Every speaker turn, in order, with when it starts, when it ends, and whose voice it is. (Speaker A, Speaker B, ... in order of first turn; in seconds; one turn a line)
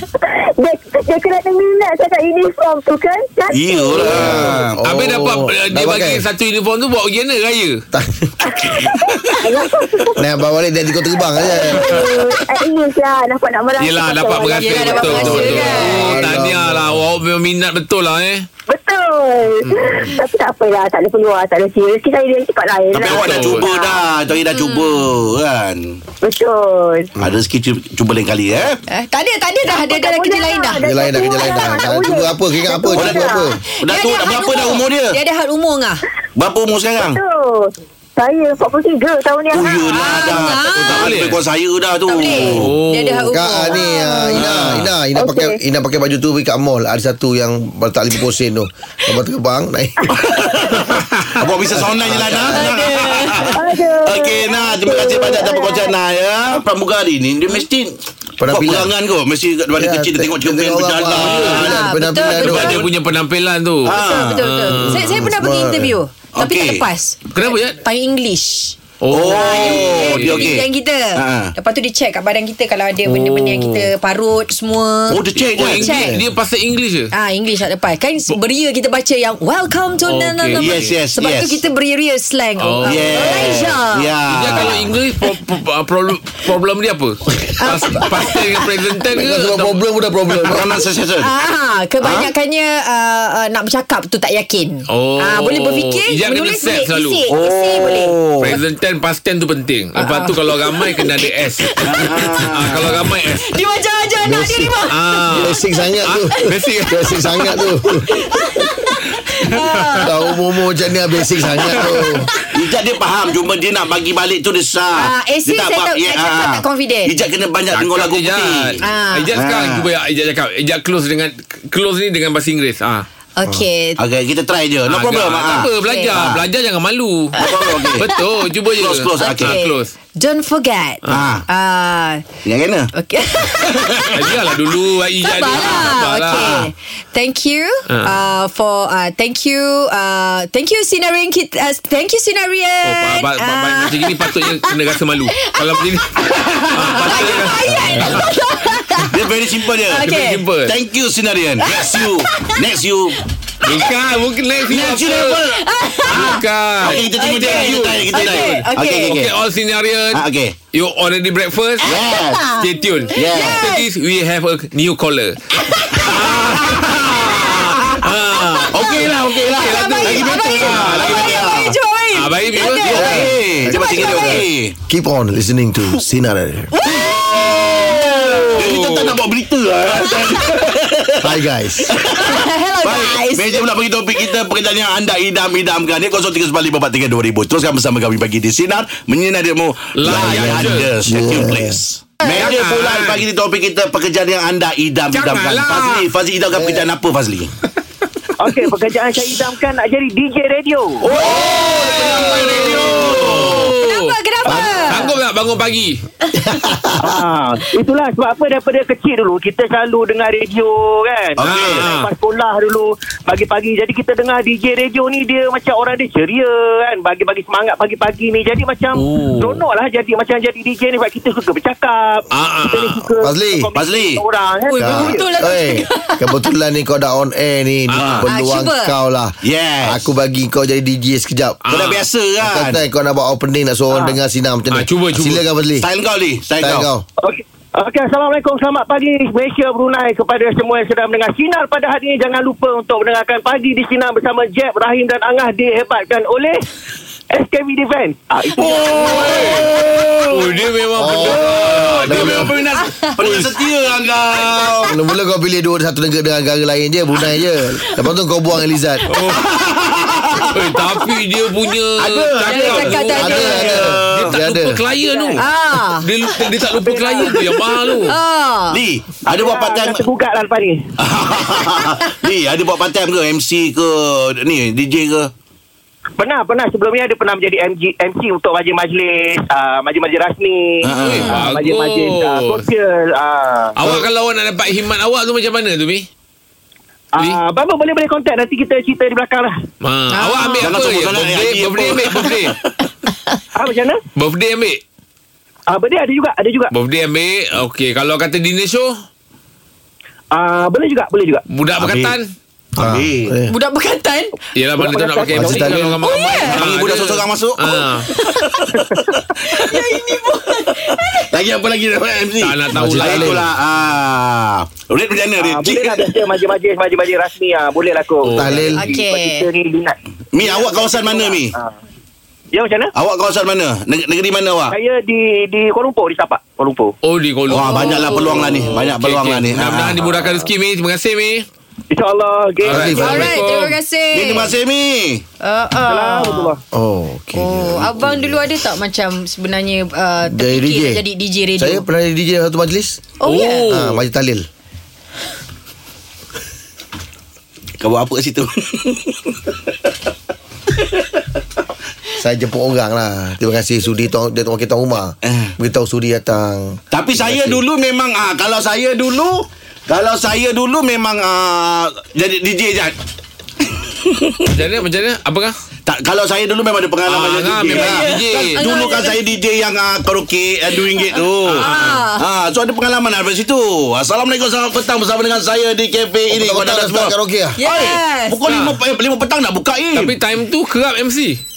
Speaker A: 0.2-4.3
Speaker B: 3.5-4.8
Speaker C: 3.9-6.2
Speaker D: 4.2-7.8
Speaker C: 7.9-8.3
Speaker A: 8.5-10.2
Speaker C: 10.2-12.1
Speaker A: 11.4-16.1
Speaker D: 11.7-12.0
Speaker D: 13.8-18.5
Speaker E: 14.6-16.2
Speaker C: 15.2-17.0
Speaker A: 18.7-23.9
Speaker D: 19.6-20.1
Speaker B: 22.9-26.0
Speaker D: 23.1-23.7
Speaker E: 24.5-24.9
Speaker A: 26.2-27.1
Speaker B: 27.2-28.8
Speaker E: 28.9-30.8
Speaker A: 29.7-33.5
Speaker C: 30.8-33.6
Speaker B: 32.9-35.2
Speaker E: 33.8-36.0
Speaker B: 36.4-37.2
Speaker A: 37.0-40.3
Speaker B: 39.5-42.8
Speaker E: 39.9-41.1
Speaker D: 40.7-41.4
Speaker E: 42.1-44.3
Speaker D: 42.4-43.3
Speaker C: 43.3-50.1
Speaker A: 43.7-44.4
Speaker B: 44.4-44.9
Speaker D: 44.5-44.8
Speaker A: 45.1-45.6
Speaker B: 50.1-62.9
Speaker C: 51.7-52.6
Speaker E: 52.5-53.5
Speaker A: 53.5-55.9
Speaker C: 58.4-58.9
Speaker C: 59.8-62.8
Speaker E: 61.2-62.8
Speaker D: 62.4-65.2
Speaker B: 63.9-64.4
Speaker E: 63.9-68.8
Speaker C: 64.8-66.0
Speaker B: 66.3-66.8
Speaker D: 67.3-67.8
Speaker D: 69.0-70.6
Speaker B: 69.1-71.5
Speaker E: 69.3-76.2
Speaker D: 73.0-73.8
Speaker B: 75.1-76.2
Speaker D: 75.3-77.1
Speaker E: 77.1-84.6
Speaker D: 80.0-81.0
Speaker B: 80.6-81.6
Speaker D: 82.6-83.5
Speaker B: 82.8-84.9
Speaker D: 84.3-89.8
Speaker E: 87.6-88.4
Speaker C: 89.1-90.8
Speaker B: 90.5-91.3
Speaker E: 91.2-98.6
Speaker B: 92.0-92.3
Speaker D: 94.9-97.2
Speaker B: 97.3-98.6
Speaker D: 98.4-101.7
Speaker E: 100.0-102.1
Speaker B: 101.8-102.9
Speaker D: 102.5-103.6
Speaker E: 102.7-105.6
Speaker C: 104.2-104.7
Speaker D: 104.9-107.1
Speaker C: 105.3-108.1
Speaker E: 106.3-110.3
Speaker D: 109.5-110.0
Speaker C: 110.0-112.3
Speaker E: 111.4-112.5
Speaker B: 112.5-119.9
Speaker E: 115.0-117.1
Speaker D: 117.7-123.0
Speaker E: 118.8-119.3
Speaker E: 123.4-124.0
Speaker B: 124.0-126.5
Speaker D: 124.8-127.3
Speaker E: 125.8-126.2
Speaker E: 127.3-128.3
Speaker B: 127.4-128.1
Speaker D: 128.0-129.9
Speaker B: 128.8-129.6
Speaker E: 129.2-132.2
Speaker B: 131.1-131.4
Speaker B: 132.4-132.9
Speaker E: 132.9-134.1
Speaker B: 133.6-134.1
Speaker D: 134.1-136.6
Speaker E: 135.2-144.8
Speaker B: 135.5-136.7
Speaker D: 137.9-138.1
Speaker D: 142.8-146.2
Speaker E: 145.3-149.2
Speaker B: 146.3-147.2
Speaker D: 146.7-148.2
Speaker B: 147.7-148.0
Speaker B: 149.1-150.1
Speaker E: 149.8-150.4
Speaker D: 150.0-150.8
Speaker B: 150.6-153.2
Speaker E: 151.6-152.6
Speaker E: 153.6-153.9
Speaker D: 153.6-155.4
Speaker B: 154.7-159.3
Speaker E: 155.5-156.4
Speaker D: 156.1-161.9
Speaker E: 157.1-159.2
Speaker B: 160.1-160.6
Speaker B: 161.8-162.4
Speaker E: 161.9-163.9
Speaker D: 162.6-165.4
Speaker B: 163.1-163.6
Speaker E: 165.7-166.1
Speaker D: 166.0-171.4
Speaker E: 166.6-167.8
Speaker B: 168.7-171.8
Speaker E: 168.7-174.4
Speaker D: 172.1-173.0
Speaker B: 172.6-174.7
Speaker C: 172.8-176.7
Speaker E: 176.7-178.6
Speaker B: 176.9-181.3
Speaker D: 178.3-179.2
Speaker E: 179.9-180.6
Speaker C: 181.2-181.9
Speaker B: 181.9-197.5
Speaker E: 182.1-183.7
Speaker D: 189.9-190.9
Speaker C: 190.1-191.8
Speaker D: 192.2-193.2
Speaker D: 195.1-196.1
Speaker C: 196.5-196.9
Speaker F: 198.4-201.4
Speaker B: 201.0-203.7
Speaker E: 201.2-205.1
Speaker D: 201.2-206.0
Speaker C: 201.4-203.0
Speaker C: 204.5-204.9
Speaker E: 206.4-206.7
Speaker C: 206.5-207.1
Speaker F: 207.0-225.3
Speaker B: 211.4-211.8
Speaker D: 211.4-212.1
Speaker D: 218.9-219.7
Speaker D: 222.3-223.1
Speaker C: 223.2-223.7
Speaker B: 223.7-224.2
Speaker E: 224.7-226.2
Speaker C: 224.8-231.6
Speaker D: 227.9-228.3
Speaker B: 227.9-228.3
Speaker E: 228.3-228.9
Speaker B: 229.4-230.1
Speaker D: 231.6-232.1
Speaker B: 231.7-232.8
Speaker C: 232.4-235.9
Speaker F: 233.9-234.2
Speaker D: 234.7-235.4
Speaker B: 235.8-236.9
Speaker C: 236.6-237.0
Speaker F: 237.2-246.7
Speaker F: 247.3-249.6
Speaker B: 248.7-250.4
Speaker D: 248.8-249.7
Speaker D: 250.3-253.5
Speaker C: 250.9-252.5
Speaker B: 251.7-254.9
Speaker E: 252.8-253.1
Speaker C: 254.8-259.1
Speaker D: 259.1-259.4
Speaker B: 259.3-260.5
Speaker D: 260.5-268.1
Speaker B: 262.0-264.4
Speaker E: 262.4-263.9
Speaker C: 263.1-264.8
Speaker F: 264.9-265.4
Speaker E: 265.4-266.1
Speaker F: 266.6-268.0
Speaker E: 268.1-268.8
Speaker B: 268.7-270.0
Speaker F: 269.3-270.9
Speaker B: 271.0-275.3
Speaker F: 276.2-283.9
Speaker B: 280.8-281.2
Speaker D: 281.0-282.6
Speaker E: 281.1-281.4
Speaker D: 283.7-286.1
Speaker F: 287.1-289.6
Speaker D: 289.8-292.6
Speaker E: 290.1-290.7
Speaker B: 290.6-292.7
Speaker F: 293.5-294.0
Speaker D: 294.1-294.8
Speaker F: 295.7-296.7
Speaker D: 296.7-299.0
Speaker F: 300.3-301.4
Speaker D: 301.5-302.3
Speaker B: 301.7-302.2
Speaker B: 302.8-303.4
Speaker C: 302.8-303.5
Speaker E: 303.5-304.4
Speaker D: 304.5-308.1
Speaker F: 304.8-305.7
Speaker C: 305.3-306.0
Speaker E: 306.0-306.6
Speaker B: 306.4-307.8
Speaker E: 308.0-308.7
Speaker B: 308.4-308.6
Speaker F: 308.8-309.2
Speaker E: 309.4-311.2
Speaker B: 309.6-309.8
Speaker B: 310.9-316.5
Speaker D: 312.4-313.4
Speaker C: 312.7-313.5
Speaker F: 315.4-321.7
Speaker D: 318.2-318.9
Speaker C: 318.3-319.0
Speaker E: 318.8-319.5
Speaker B: 320.3-321.5
Speaker F: 322.5-322.9
Speaker B: 322.9-324.7
Speaker F: 324.7-326.9
Speaker D: 327.0-331.4
Speaker B: 327.5-330.2
Speaker E: 327.8-328.6
Speaker F: 328.1-328.4
Speaker F: 331.9-333.4
Speaker C: 332.7-333.3
Speaker D: 332.7-333.8
Speaker E: 333.0-334.5
Speaker B: 334.1-335.2
Speaker E: 335.4-336.5
Speaker F: 335.8-336.6
Speaker C: 336.7-338.5
Speaker E: 337.3-341.8
Speaker C: 340.3-341.0
Speaker C: 341.6-343.1
Speaker E: 343.2-343.7
Speaker D: 343.2-344.0
Speaker C: 343.7-344.4
Speaker B: 347.8-349.5
Speaker C: 352.2-357.6
Speaker B: 355.2-355.5
Speaker B: 356.9-362.9
Speaker B: 364.0-364.4
Speaker D: 364.5-365.5
Speaker B: 365.9-380.2
Speaker D: 367.1-368.6
Speaker E: 367.7-369.2
Speaker D: 371.4-372.0
Speaker E: 371.5-372.2
Speaker C: 376.3-377.6
Speaker E: 377.6-378.4
Speaker D: 378.4-378.8
Speaker D: 379.9-381.4